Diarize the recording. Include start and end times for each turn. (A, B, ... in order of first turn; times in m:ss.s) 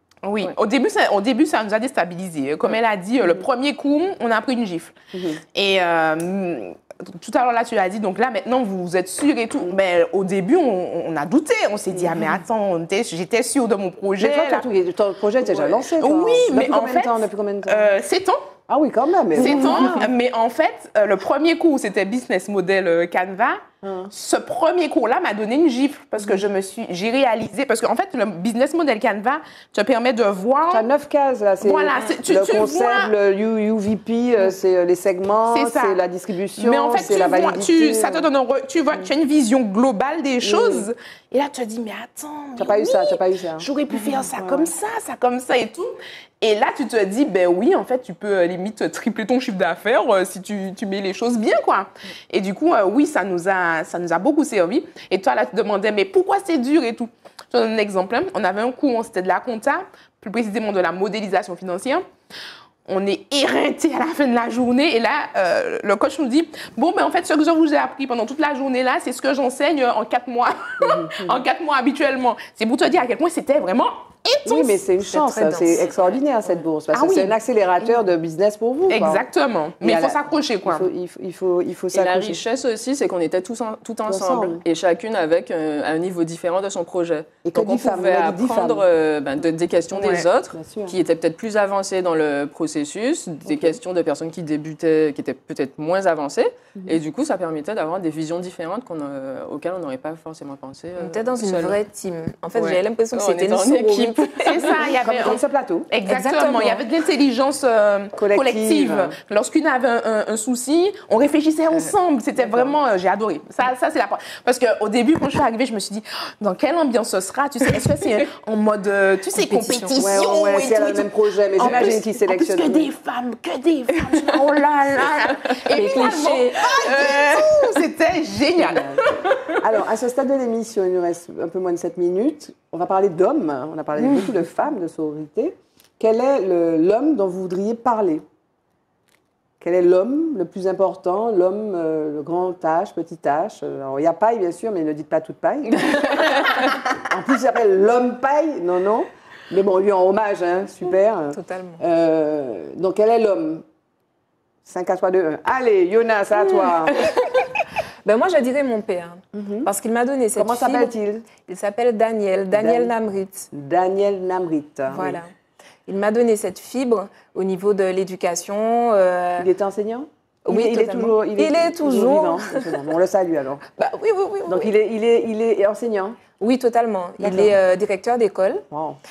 0:00.2-0:05.0 A
0:05.1-0:05.4 B
0:05.5-0:14.6 A
0:12.0-0:12.2 B
0:14.2-0:17.9 B
0:15.6-0:18.4 A
0:18.7-0:20.1 B
0:19.3-0:30.9 A
0:23.8-0:24.1 B
0:30.7-0:38.3 B
0:31.6-0:33.1 A
0:35.5-0:36.0 A
0:36.6-1:02.0 A
0:40.4-0:40.9 B
0:42.6-0:43.7 B
0:44.4-0:44.7 B
1:02.8-1:14.8 A
1:10.8-1:11.4 B
1:14.4-1:19.2 B
1:15.0-1:15.9 C
1:16.9-1:17.3 A
1:18.9-1:20.9 A
1:19.8-1:22.4 B
1:21.9-1:41.8 D
1:24.0-1:24.6 B
1:27.4-1:28.8 B
1:29.9-1:30.2 A
1:30.5-1:31.0 B
1:33.4-1:33.8 B
1:41.0-1:44.6 C
1:42.5-1:44.8 D
1:44.5-2:09.1 A
1:44.8-1:45.9 B
1:46.0-1:46.8 C
1:48.2-1:49.2 B
1:59.4-2:00.0 C
2:00.0-2:02.9 B
2:05.7-2:07.4 C
2:08.6-2:18.2 B
2:19.6-2:26.4 B
2:25.9-2:26.6 D
2:27.0-2:33.6 B
2:31.3-2:31.8 C
2:34.6-2:37.0 B
2:38.0-2:43.5 C
2:39.3-2:39.7 B
2:40.3-2:41.2 B
2:42.5-2:42.9 B
2:43.5-2:45.2 B
2:44.9-2:45.3 C
2:45.9-2:49.5 C
2:49.4-2:53.7 B
2:50.4-2:52.7 C
2:53.8-2:54.7 C
2:54.5-2:56.2 B
2:56.4-2:58.6 C
2:57.2-2:57.6 B
2:58.7-2:59.0 B